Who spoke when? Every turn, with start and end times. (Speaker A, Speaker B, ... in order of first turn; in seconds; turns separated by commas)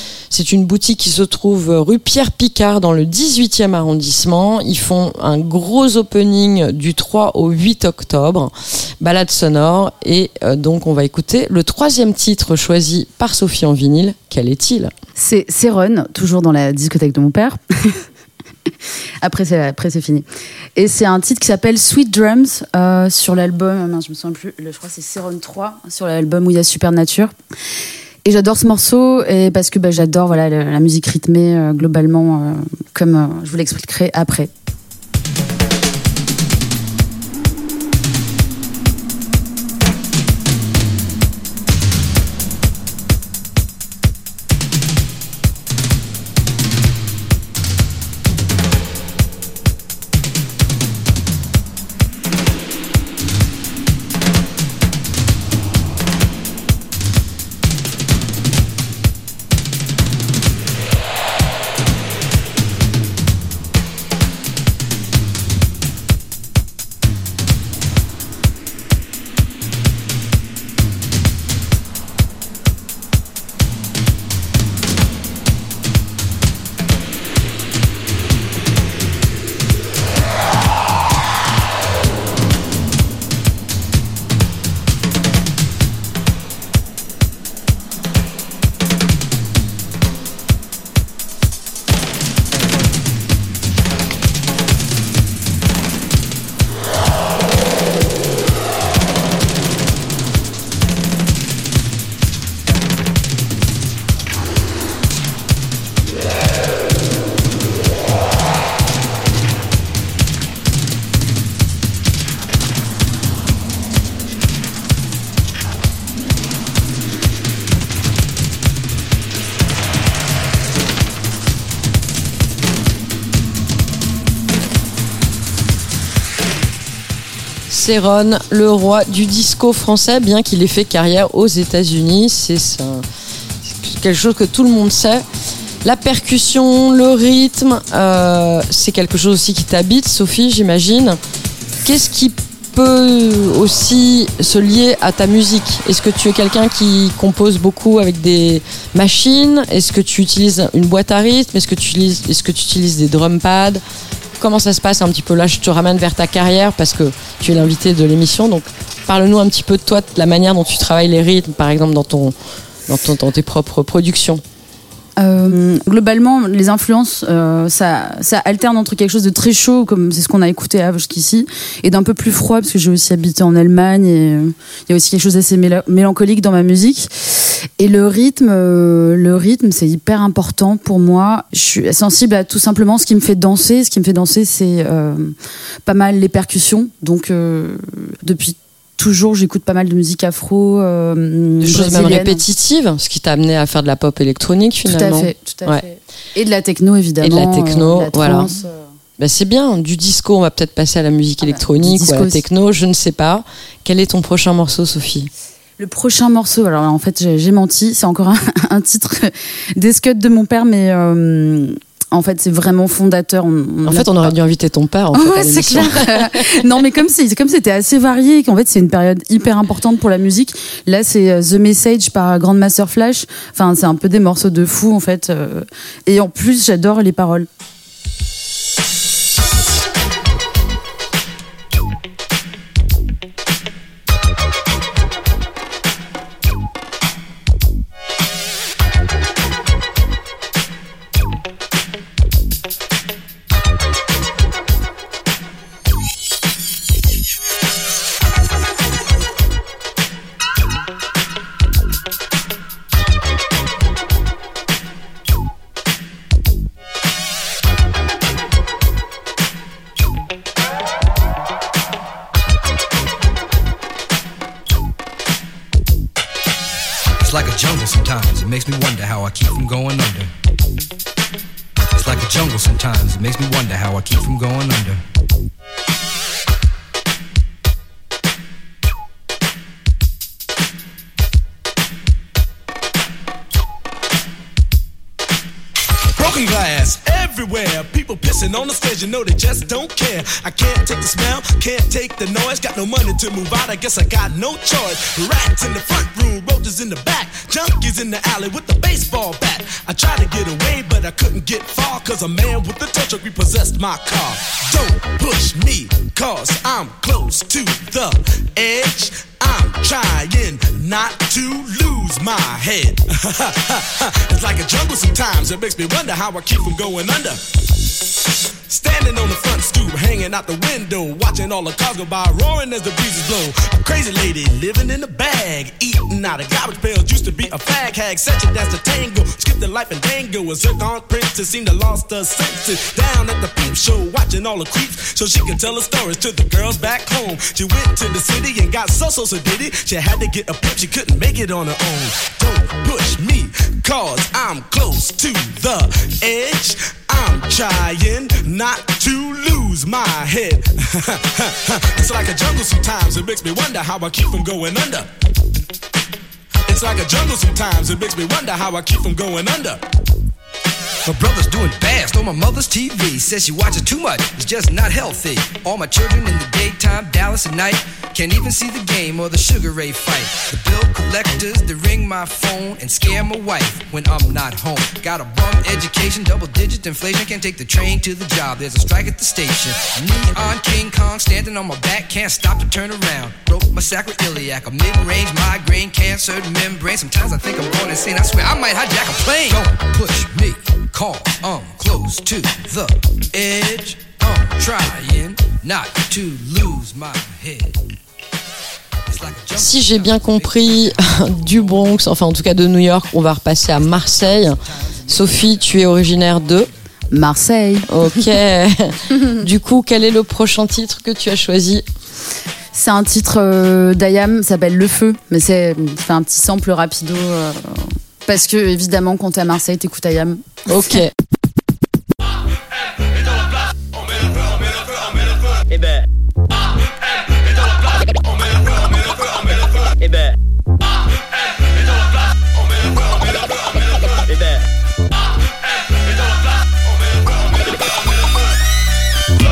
Speaker A: 0.3-14.9, Speaker B: 15.2-18.0, Speaker B: 19.2-27.3, Speaker B: 28.2-34.5, Speaker A: 127.7-133.1, Speaker A: 133.6-135.2, Speaker A: 135.8-141.2, Speaker A: 141.8-153.8, Speaker A: 154.4-162.4, Speaker A: 162.9-164.4, Speaker B: 165.2-185.3, Speaker B: 185.9-192.4, Speaker A: 191.6-195.8, Speaker B: 194.8-198.9, Speaker A: 197.2-198.5, Speaker A: 199.2-205.3, Speaker B: 201.4-202.4, Speaker B: 205.8-214.3, Speaker A: 213.8-216.7, Speaker B: 215.1-227.5, Speaker C: 267.2-270.3, Speaker C: 272.0-275.0, Speaker D: 286.2-317.4, Speaker D: 318.7-355.1, Speaker D: 356.7-359.8, Speaker C: 361.1-397.8, Speaker C: 399.1-401.7, Speaker A: 399.5-406.7, Speaker C: 405.1-405.7, Speaker B: 407.1-407.9, Speaker A: 407.9-411.9, Speaker B: 412.7-421.0, Speaker A: 420.7-421.1